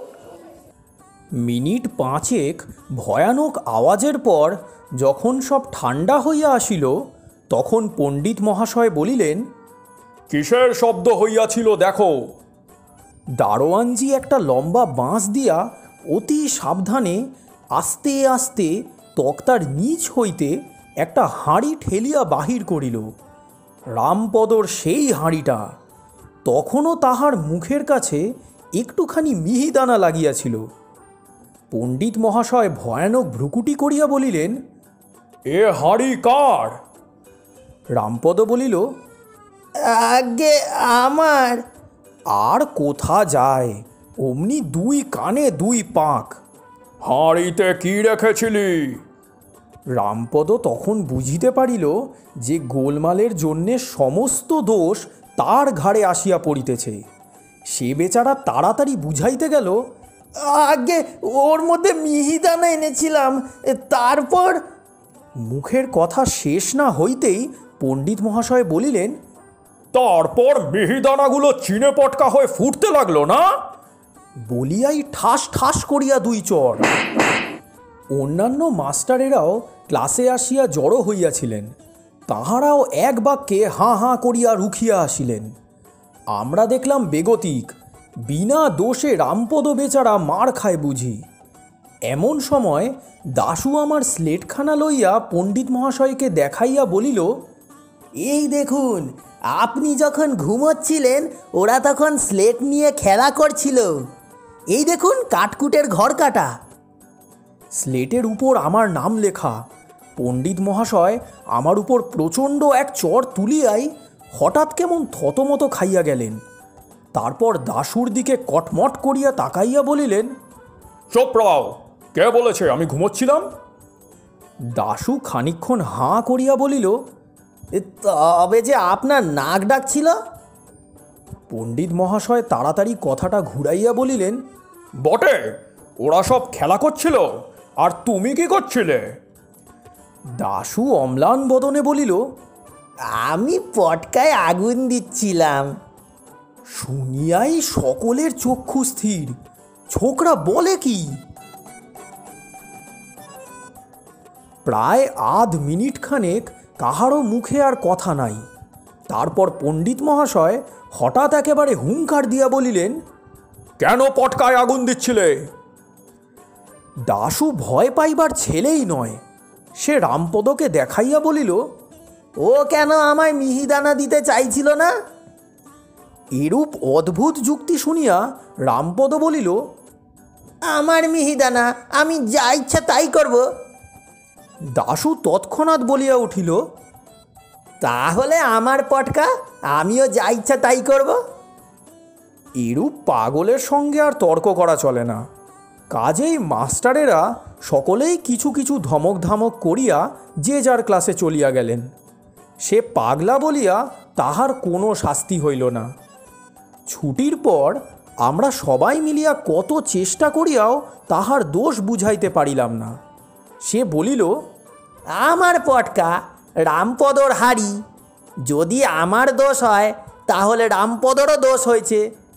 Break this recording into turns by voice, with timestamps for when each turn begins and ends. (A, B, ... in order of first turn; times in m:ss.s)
0:01.4-0:07.0 A
0:07.5-0:09.4 A
0:10.3-0:12.1 A
0:13.4-0:17.2 A
0:17.8-0:23.1 A
0:24.0-0:25.6 A
0:26.5-0:28.2 A
0:28.8-0:30.6 A
0:31.7-0:34.6 A
0:35.5-0:36.8 A
0:38.0-0:38.8 A
0:39.9-0:41.6 B
0:42.3-0:46.4 A
0:47.0-0:49.0 A
0:50.0-0:57.0 A
0:57.7-0:59.8 A
1:00.5-1:01.2 B
1:00.6-1:03.1 A
1:01.8-1:04.6 B
1:03.8-1:04.5 A
1:05.4-1:09.2 A
1:09.9-1:13.5 A
1:14.5-1:16.9 A
1:18.2-1:21.7 A
1:22.3-1:25.5 A
1:26.4-1:27.7 A
1:28.3-1:31.2 A
1:32.1-1:37.3 A
1:38.2-1:43.8 A
1:40.9-1:43.9 B
1:44.8-1:46.5 B
1:44.8-1:46.4 A
1:47.8-1:49.6 A
1:50.2-1:56.4 A
1:57.2-2:00.3 A
2:01.1-2:03.5 A
2:04.8-2:07.0 A
2:07.8-2:10.2 B
2:11.5-2:14.4 A
2:15.0-2:17.3 A
2:17.8-2:19.0 A
2:20.4-2:22.2 A
2:23.3-2:25.7 B
2:26.8-2:29.4 A
2:29.9-2:31.2 A
2:34.6-2:38.4 A
2:39.1-2:43.0 A
2:43.8-2:45.5 A
2:47.1-2:49.2 A
2:49.8-2:51.6 A
2:52.4-2:54.9 B
2:56.4-2:59.6 A
3:00.7-3:03.4 B
3:04.8-3:06.6 A
3:07.8-3:11.2 B
3:12.6-3:15.2 A
3:15.9-3:21.9 A
3:22.6-3:25.9 A
3:26.9-3:33.0 A
3:33.6-3:34.3 A
3:35.2-3:37.8 B
3:38.5-3:42.0 B